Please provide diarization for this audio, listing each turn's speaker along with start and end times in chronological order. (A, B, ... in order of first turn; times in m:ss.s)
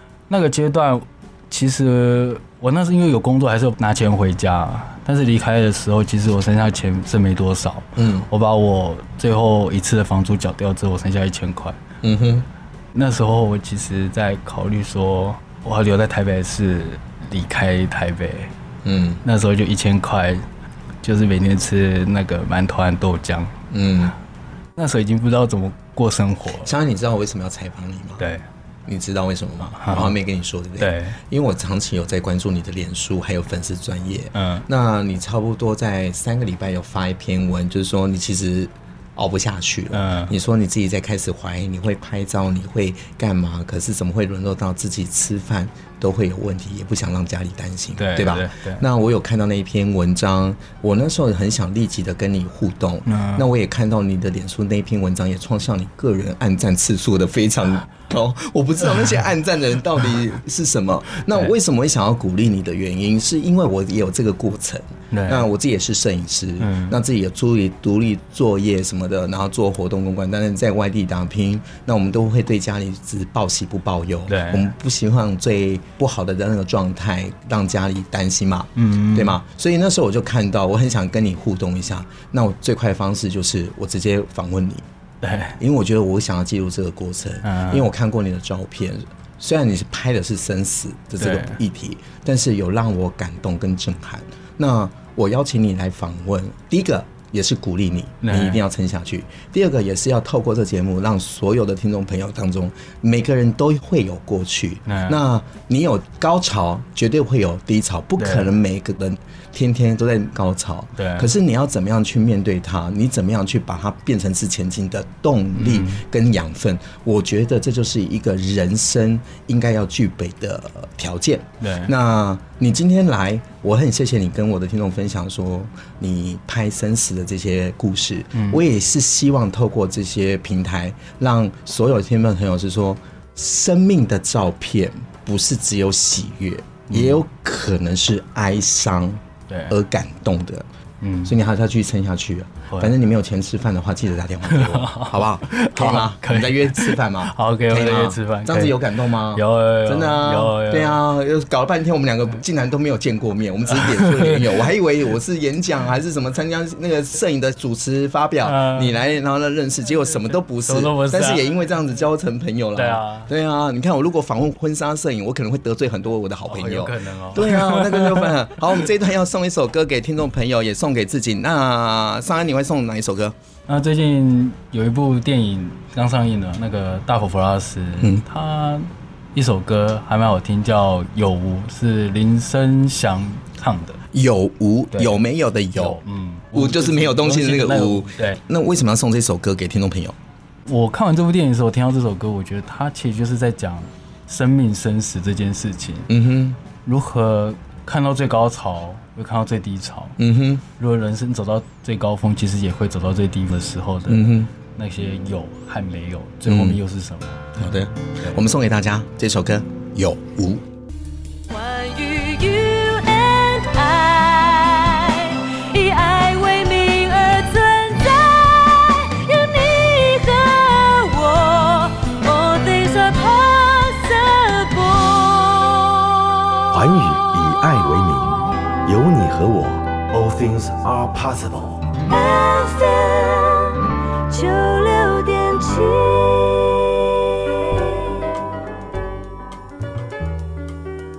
0:00.3-0:11.8 A
0:08.0-0:08.3 B
0:12.0-0:12.5 B
0:12.9-0:18.5 A
0:18.8-0:19.2 B
0:19.2-0:20.4 A
0:21.0-0:23.5 A
0:23.7-0:24.1 B
0:24.8-0:26.7 A
0:26.6-0:28.2 B
0:28.2-0:28.4 A
0:28.8-1:24.8 B
0:29.6-0:30.1 A
0:30.8-0:31.2 A
0:34.3-0:34.6 A
0:39.9-0:40.3 A
0:48.0-0:48.8 A
0:53.0-0:53.5 A
1:05.1-1:05.5 A
1:06.6-1:07.0 A
1:14.3-1:14.7 A
1:18.8-1:19.4 A
1:25.2-1:25.6 A
1:25.6-2:20.6 B
1:27.4-1:27.9 A
1:31.2-1:31.6 A
1:38.2-1:38.6 A
1:44.8-1:45.2 A
1:48.2-1:48.5 A
1:51.0-1:51.3 A
1:55.5-1:56.0 A
2:01.6-2:01.9 A
2:08.3-2:08.6 A
2:16.9-2:17.2 A
2:19.5-2:19.7 A
2:21.0-2:21.3 A
2:21.2-2:53.3 B
2:22.7-2:22.9 A
2:24.5-2:28.8 A
2:29.3-2:31.0 A
2:33.7-2:34.6 A
2:38.4-2:38.9 A
2:40.6-2:41.4 A
2:42.7-2:43.3 A
2:46.4-2:48.3 A
2:53.7-3:04.0 A
2:58.0-2:58.2 B
3:04.1-3:06.0 B
3:04.9-3:05.2 A
3:05.7-3:08.4 A
3:06.5-3:10.1 B
3:10.7-3:16.1 A
3:16.1-3:16.6 B
3:16.8-3:20.2 A
3:20.2-3:20.6 B
3:20.8-3:27.5 A
3:24.1-3:24.5 B
3:26.4-3:26.8 B
3:27.6-3:30.6 B
3:31.5-3:45.9 C
3:46.7-3:51.9 D
3:52.1-3:58.0 C